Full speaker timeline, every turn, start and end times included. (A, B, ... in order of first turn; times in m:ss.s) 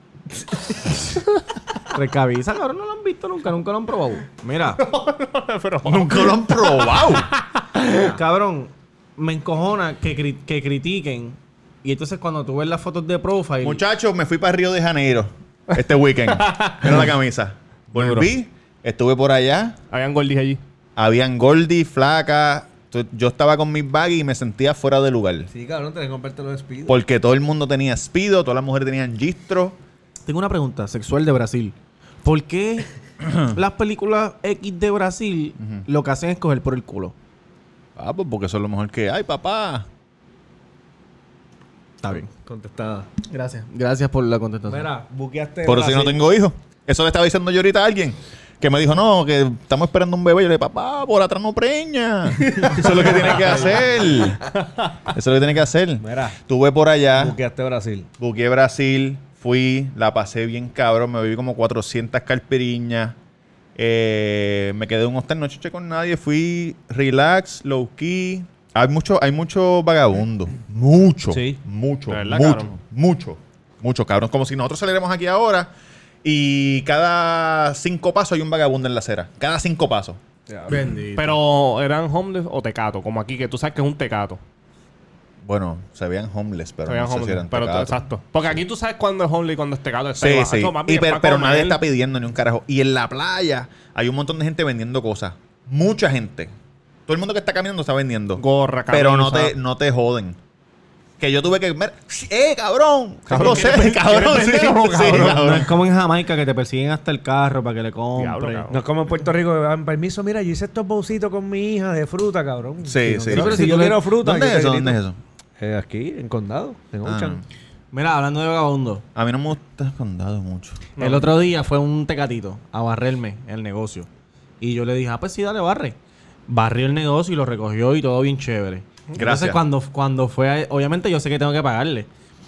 0:01.9-0:04.8 A
0:04.8-0:08.0 B
0:05.8-0:07.3 C
0:08.0-0:13.8 A
0:13.6-0:19.8 C
0:16.4-0:17.1 B
0:17.9-0:18.3 B
0:19.9-0:20.6 B
0:21.0-0:25.5 C
0:25.5-0:27.0 D
0:26.9-0:29.8 C
0:30.3-0:32.9 A
0:33.2-0:33.6 C
0:33.4-0:37.1 A
0:35.6-0:35.8 C
0:38.0-0:39.9 C
0:42.0-0:42.3 A
0:42.4-0:43.1 D
0:43.3-0:44.9 A
0:44.7-0:46.2 D
0:45.6-0:54.6 C
0:52.4-0:54.3 D
0:55.1-0:57.4 C
0:56.0-0:56.4 D
0:57.2-0:58.1 D
0:58.2-1:03.2 C
1:03.8-1:15.7 C
1:11.3-1:11.6 D
1:12.1-1:12.7 B
1:16.2-1:20.2 C
1:20.5-1:20.9 D
1:20.7-1:21.4 A
1:21.2-1:24.4 B
1:25.4-1:28.5 C
1:26.9-1:31.8 B
1:30.2-1:36.5 C
1:37.1-1:40.4 C
1:38.4-1:39.5 B
1:41.2-1:45.8 C
1:43.3-1:45.4 B
1:45.0-1:48.7 A
1:48.2-1:48.8 B
1:48.7-1:55.0 D
1:52.8-1:55.2 C
1:53.3-1:54.0 A
1:55.6-1:57.4 D
1:57.0-1:57.4 C
1:57.9-1:59.0 A
1:59.2-2:00.8 C
2:01.0-2:01.4 B
2:01.0-2:04.1 A
2:04.6-2:06.0 A
2:06.5-2:12.1 A
2:09.2-2:09.6 C